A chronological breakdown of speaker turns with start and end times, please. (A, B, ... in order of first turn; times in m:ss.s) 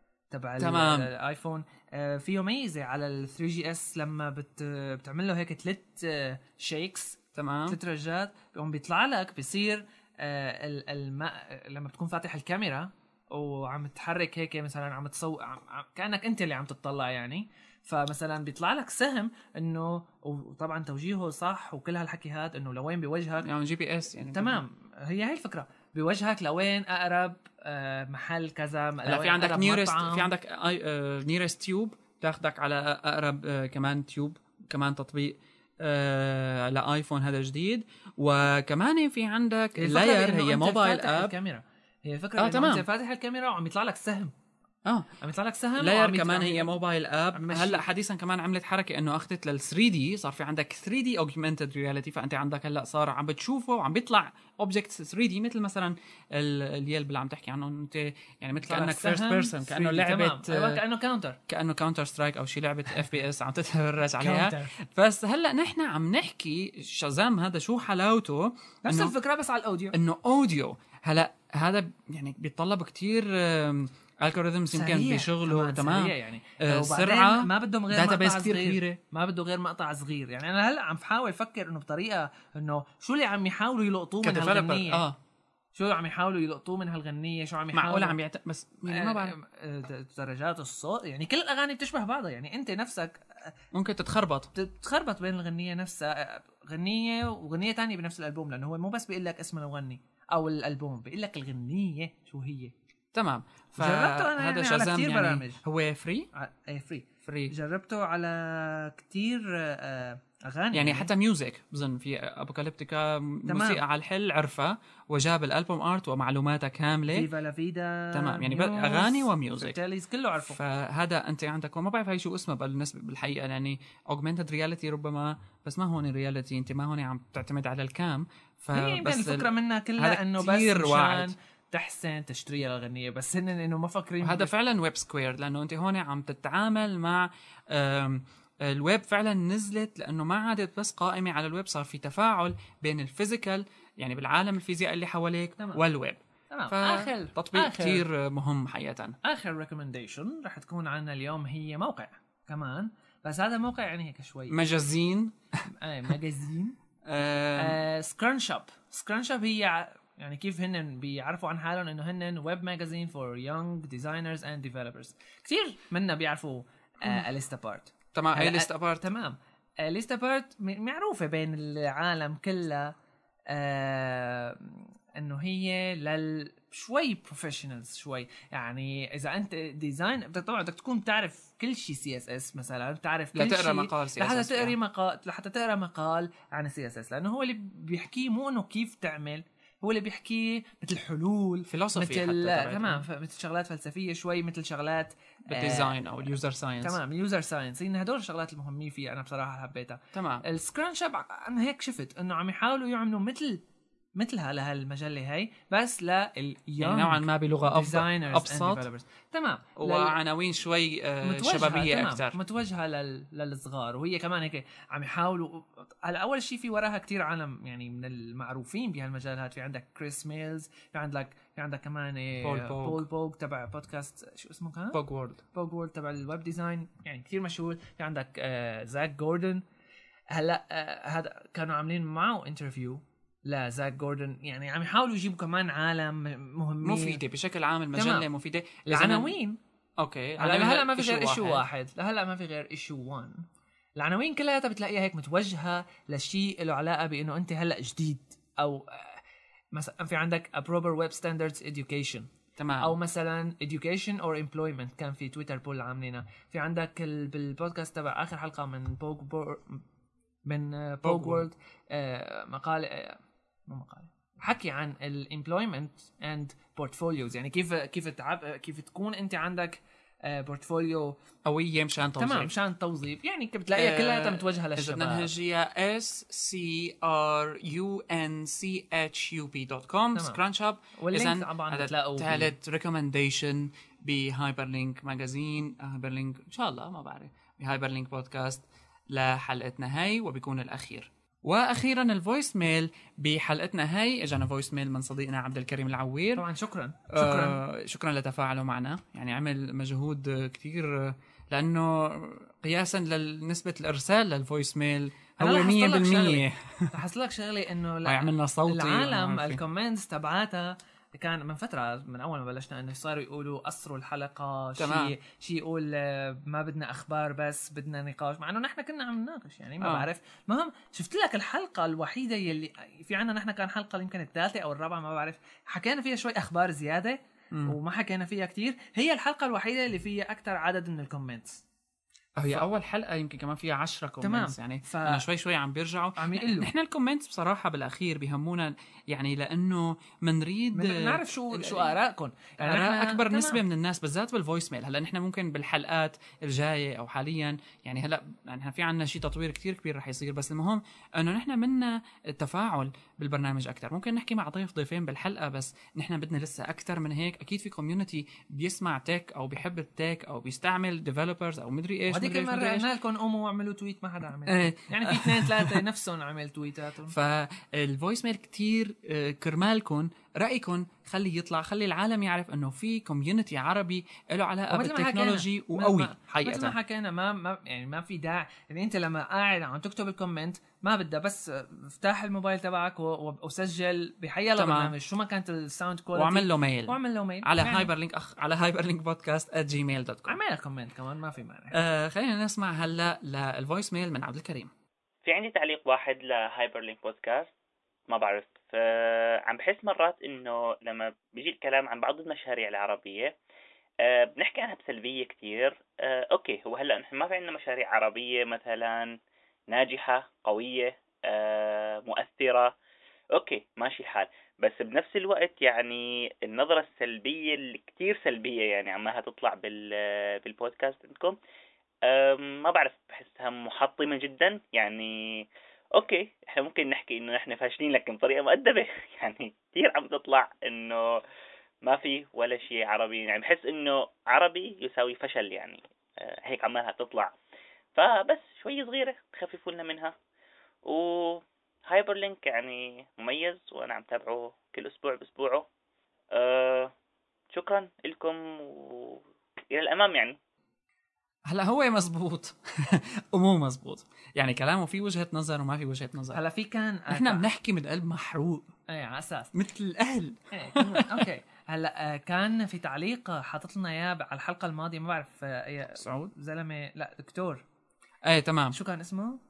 0:00.3-0:23.5 A
0:00.6-0:01.1 B
0:07.4-0:07.8 B
0:23.4-0:24.6 B
0:24.3-0:30.3 A
0:29.0-0:41.3 B
0:39.8-0:44.3 A
0:42.4-0:42.8 B
0:44.8-0:45.1 B
0:45.2-0:46.7 A
0:45.8-1:00.8 B
0:47.3-0:47.8 A
0:58.6-1:01.4 A
1:01.5-1:09.1 B
1:04.2-1:04.7 A
1:08.8-1:10.0 A
1:09.9-1:19.0 B
1:14.7-1:25.0 A
1:24.2-1:25.2 B
1:25.7-1:28.2 A
1:27.7-1:29.3 B
1:28.9-1:33.5 A
1:33.7-1:34.5 B
1:34.5-1:42.7 A
1:43.1-1:46.3 B
1:43.8-1:45.6 A
1:46.3-1:51.1 A
1:47.2-1:47.5 B
1:50.7-1:57.3 B
1:53.5-1:53.8 A
1:57.1-2:00.6 A
1:58.1-1:59.8 B
2:00.5-2:11.3 B
2:08.7-2:14.5 A
2:14.2-2:29.2 B
2:26.5-2:28.0 A
2:29.2-2:34.5 A
2:34.5-2:35.6 B
2:35.7-2:36.8 A
2:37.0-2:37.8 B
2:37.6-2:52.9 A
2:48.1-2:49.0 B
2:53.5-3:16.0 A
3:03.3-3:04.8 B
3:11.7-3:13.0 B
3:15.5-3:17.0 B
3:16.8-3:23.6 A
3:20.1-3:20.4 B
3:24.1-3:30.2 A
3:26.8-3:28.8 B
3:29.8-3:32.4 B
3:31.2-3:45.0 A
3:42.4-3:43.0 B
3:44.9-3:45.4 B
3:45.5-3:49.6 A
3:50.3-3:57.2 A
3:56.8-3:59.3 B
3:57.9-3:58.3 A
3:58.8-3:59.6 A
4:00.0-4:01.6 B
4:00.4-4:03.4 A
4:04.0-4:19.8 A
4:12.6-4:12.9 B
4:20.4-4:31.2 A
4:21.0-4:21.4 B
4:31.4-4:32.5 B
4:32.2-4:35.3 A
4:33.7-4:56.4 B
4:40.1-4:40.4 A
4:41.0-4:42.5 A
4:56.4-4:57.6 A
4:57.1-5:06.9 B
5:05.4-5:31.6 A
5:08.0-5:09.6 B
5:14.8-5:15.1 B
5:19.8-5:20.1 B
5:32.4-5:41.9 B
5:34.2-5:35.2 A
5:36.2-5:36.7 A
5:40.7-5:43.6 A
5:42.6-6:02.9 B
6:02.1-6:07.1 A
6:04.5-6:05.8 B
6:07.1-6:16.7 B
6:14.7-6:27.9 A
6:24.6-6:24.9 B
6:26.1-6:30.4 B
6:30.3-6:31.8 A
6:31.7-6:34.7 B
6:35.2-6:37.5 C
6:38.1-6:43.3 C
6:44.0-6:49.1 C
6:49.7-6:52.7 C
6:53.3-7:01.4 C
7:02.0-7:11.2 C
7:11.8-7:17.3 C
7:18.0-7:20.1 C
7:20.8-7:25.6 C
7:26.3-7:26.9 C
7:27.5-7:30.4 C
7:31.5-7:36.4 B
7:36.3-7:37.4 A
7:37.1-7:38.7 B
7:38.9-7:39.5 A
7:39.5-7:41.2 B
7:40.5-7:47.6 A
7:46.0-7:46.3 B
7:48.2-7:48.8 B
7:48.7-7:49.4 A